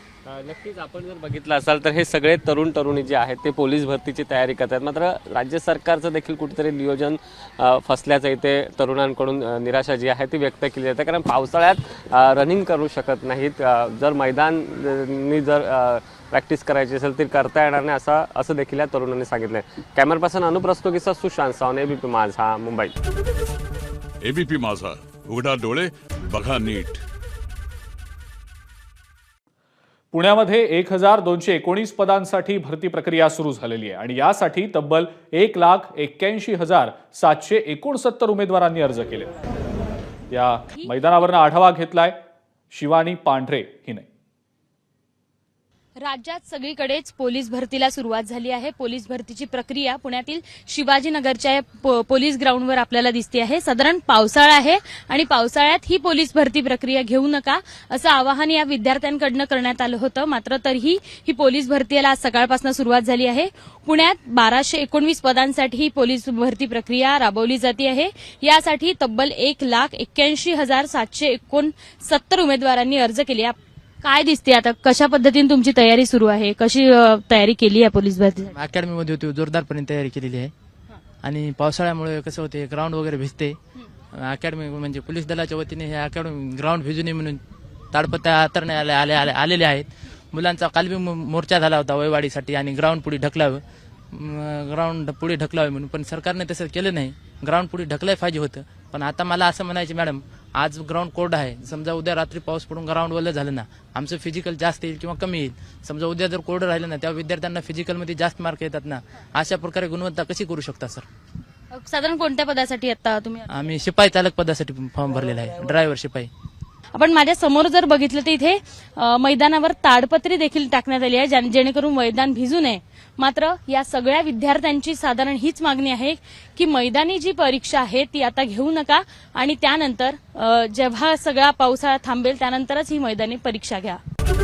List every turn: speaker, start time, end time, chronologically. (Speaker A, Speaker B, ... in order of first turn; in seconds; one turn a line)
Speaker A: 0.3-22.9
Speaker B: 24.2-27.0
Speaker C: 30.1-39.3
Speaker C: 40.3-42.2
Speaker D: 40.7-41.2
Speaker C: 42.7-44.0
Speaker D: 46.0-78.5
Speaker E: 78.5-80.5
Speaker E: 81.2-83.6
Speaker E: 84.2-87.4
Speaker E: 87.9-111.0
Speaker D: 111.7-113.5
Speaker E: 113.5-116.3
Speaker D: 117.0-134.0